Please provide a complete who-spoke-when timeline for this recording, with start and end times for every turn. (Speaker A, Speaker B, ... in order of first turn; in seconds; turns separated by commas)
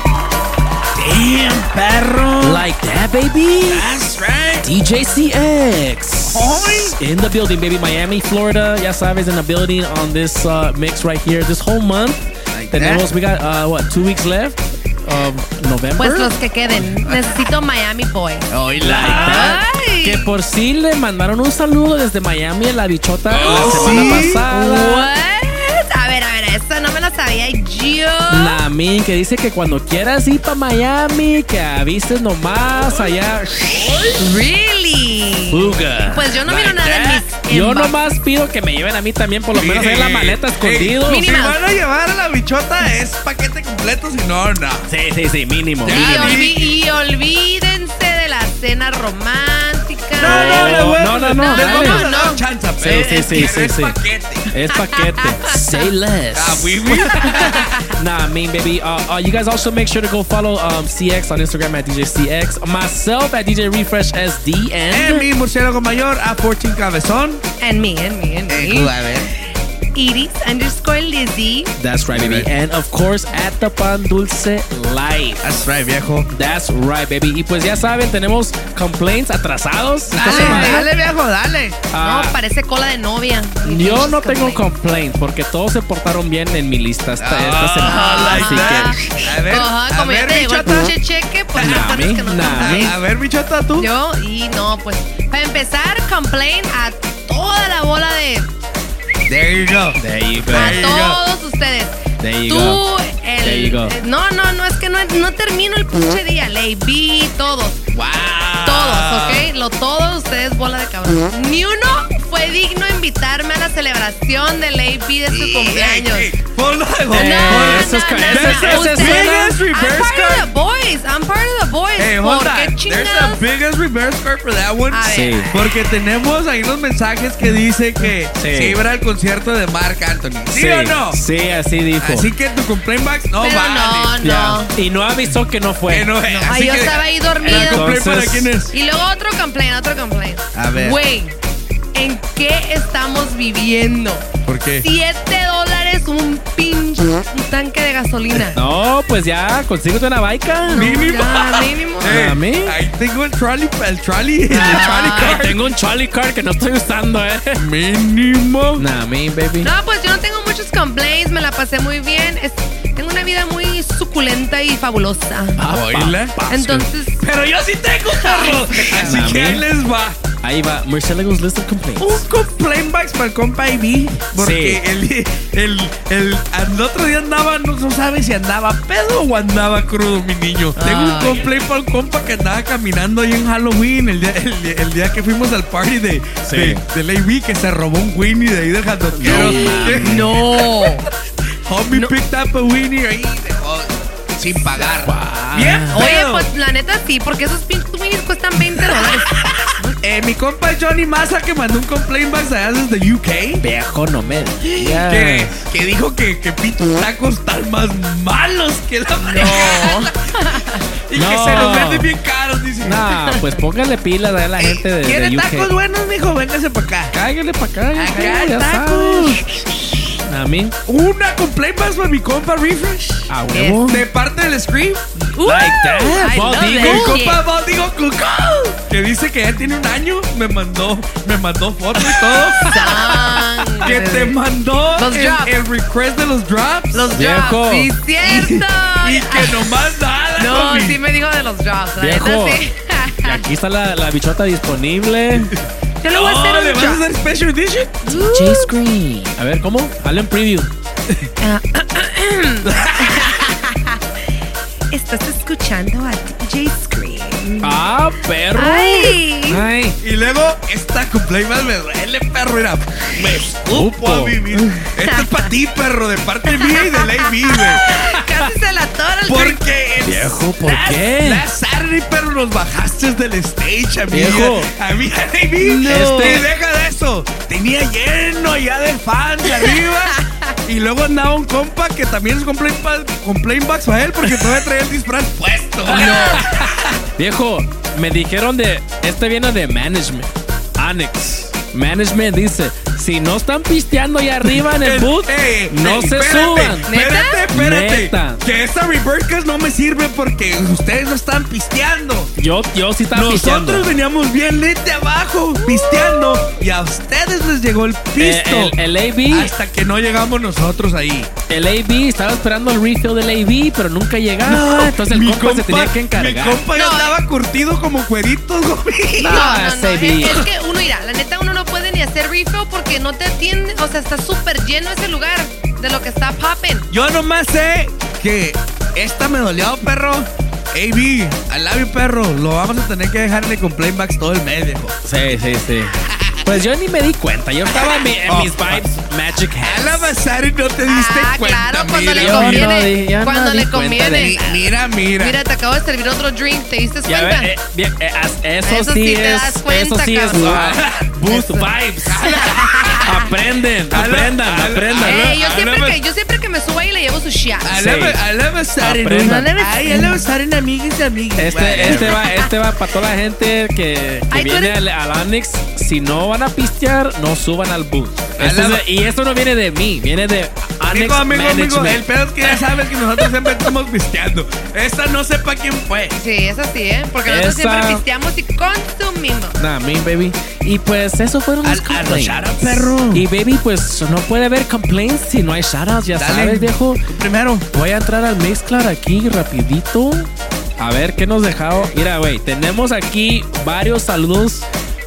Speaker A: 0.9-2.6, Speaker B: 2.4-3.9, Speaker A: 3.7-4.7, Speaker B: 4.6-16.3, Speaker A: 6.3-6.9, Speaker A: 12.5-13.0, Speaker C: 16.0-18.5, Speaker A: 18.5-19.6, Speaker B: 18.8-25.0, Speaker C: 19.0-20.3, Speaker A: 23.3-24.5, Speaker C: 23.4-28.6, Speaker B: 28.3-33.7, Speaker A: 33.7-34.2, Speaker C: 34.2-37.9, Speaker B: 35.5-36.4, Speaker A: 36.5-37.2, Speaker B: 37.5-41.3, Speaker A: 39.5-44.9, Speaker C: 41.0-41.6, Speaker B: 44.9-46.4, Speaker A: 45.8-46.8, Speaker C: 45.9-52.4, Speaker B: 50.2-52.1, Speaker A: 50.2-54.4, Speaker B: 52.8-53.9, Speaker B: 54.5-65.2, Speaker C: 55.2-55.6, Speaker A: 56.3-57.8, Speaker C: 57.4-57.7, Speaker A: 64.9-67.4, Speaker C: 67.6-68.9, Speaker A: 68.5-69.3, Speaker C: 69.9-71.7, Speaker B: 71.8-75.5, Speaker A: 72.1-72.5, Speaker A: 75.4-76.3, Speaker B: 76.3-80.9, Speaker A: 80.1-81.8, Speaker C: 80.2-80.9, Speaker B: 81.9-82.3, Speaker C: 81.9-84.7, Speaker B: 83.6-89.0, Speaker A: 87.2-90.9, Speaker C: 87.8-93.0, Speaker B: 91.5-92.9, Speaker A: 91.5-93.9, Speaker C: 93.8-98.5, Speaker A: 99.2-101.2, Speaker B: 100.0-100.8, Speaker C: 100.5-107.8, Speaker B: 102.2-102.8, Speaker B: 103.4-104.0, Speaker A: 107.9-109.5, Speaker C: 108.6-116.3, Speaker A: 115.3-120.5, Speaker B: 117.1-119.6, Speaker C: 117.1-123.4, Speaker A: 122.0-131.2, Speaker C: 124.9-125.8, Speaker B: 125.1-125.5, Speaker B: 128.3-128.8, Speaker B: 130.5-132.3, Speaker A: 132.0-134.1, Speaker C: 133.4-134.7, Speaker B: 134.2-136.1, Speaker A: 135.9-138.7, Speaker C: 136.3-138.0, Speaker B: 137.4-138.5, Speaker C: 138.7-141.3, Speaker A: 140.5-141.0, Speaker C: 141.9-144.3, Speaker A: 144.4-144.8, Speaker C: 144.8-148.6, Speaker B: 148.5-150.9, Speaker C: 150.7-152.2, Speaker A: 150.7-155.6, Speaker B: 152.0-152.7, Speaker C: 154.5-155.4, Speaker B: 154.6-157.6, Speaker A: 157.6-158.8, Speaker B: 158.8-159.7, Speaker C: 159.6-165.6, Speaker B: 165.6-166.9, Speaker A: 165.7-166.3, Speaker C: 166.5-167.2, Speaker A: 167.2-170.2, Speaker C: 168.2-169.3, Speaker B: 169.0-169.6, Speaker B: 170.4-172.2, Speaker A: 172.0-190.9, Speaker B: 174.3-174.8, Speaker C: 180.8-181.5, Speaker B: 186.4-186.8, Speaker B: 189.1-190.2, Speaker C: 189.3-191.1, Speaker A: 191.7-196.5, Speaker B: 195.0-196.0, Speaker C: 195.9-199.9, Speaker A: 198.8-199.2, Speaker A: 200.0-203.6, Speaker B: 203.6-205.6, Speaker A: 204.6-210.1, Speaker C: 209.2-210.8, Speaker A: 211.1-213.0, Speaker B: 211.1-212.1, Speaker B: 212.8-215.7, Speaker A: 214.6-217.1, Speaker B: 217.1-219.4, Speaker A: 217.9-219.4, Speaker C: 218.1-219.6, Speaker B: 220.2-220.8, Speaker A: 220.9-223.3, Speaker B: 223.3-224.0, Speaker C: 223.5-223.9, Speaker A: 223.9-225.1, Speaker C: 225.3-227.4, Speaker B: 225.4-227.2, Speaker A: 226.8-237.1, Speaker C: 232.6-234.3, Speaker C: 235.0-235.5, Speaker C: 236.9-239.8, Speaker B: 237.1-237.9, Speaker A: 238.2-241.0, Speaker C: 240.3-243.4, Speaker B: 242.0-242.6, Speaker B: 243.2-245.5, Speaker A: 245.4-248.1, Speaker C: 246.0-247.0, Speaker B: 248.1-250.7, Speaker C: 248.1-248.6, Speaker C: 251.4-254.3, Speaker A: 252.6-253.3, Speaker C: 254.9-257.8, Speaker B: 257.6-260.0, Speaker C: 258.5-259.6, Speaker A: 260.0-267.8, Speaker B: 263.7-264.4, Speaker C: 265.0-265.5, Speaker C: 266.5-269.6, Speaker A: 269.3-286.7, Speaker B: 270.0-271.4, Speaker B: 274.1-274.7, Speaker C: 275.6-276.4, Speaker B: 275.9-276.4, Speaker C: 279.5-280.5, Speaker B: 285.9-286.4, Speaker B: 287.2-297.0, Speaker A: 294.5-302.3, Speaker C: 296.9-297.4, Speaker B: 297.5-298.4, Speaker B: 302.4-303.9, Speaker A: 303.1-308.7, Speaker C: 305.7-306.2, Speaker B: 308.2-309.5, Speaker A: 309.3-311.3, Speaker B: 311.5-316.6, Speaker A: 314.4-319.5, Speaker C: 316.7-317.1, Speaker B: 319.2-320.4, Speaker C: 319.3-326.9, Speaker A: 326.9-334.9, Speaker B: 335.0-335.9, Speaker A: 336.1-336.5, Speaker B: 336.4-340.1, Speaker A: 337.7-338.8, Speaker A: 339.6-342.7, Speaker C: 340.9-344.6, Speaker B: 342.1-344.4, Speaker A: 344.1-345.4, Speaker C: 345.2-347.5, Speaker B: 347.1-352.3, Speaker C: 348.6-350.7, Speaker A: 350.4-351.1, Speaker C: 351.2-351.7, Speaker A: 352.1-353.1, Speaker C: 352.2-353.1, Speaker B: 353.0-355.4, Speaker A: 353.9-356.0, Speaker C: 355.0-357.8, Speaker A: 357.6-362.2, Speaker B: 357.7-358.2, Speaker B: 358.8-359.5, Speaker C: 359.1-360.2, Speaker B: 361.4-372.0, Speaker C: 361.9-362.2, Speaker C: 364.3-364.7, Speaker A: 368.4-368.8, Speaker A: 370.9-376.1, Speaker C: 376.1-379.5, Speaker B: 377.3-378.0, Speaker B: 379.6-387.0, Speaker A: 381.6-383.2, Speaker A: 386.1-387.6, Speaker B: 387.7-394.7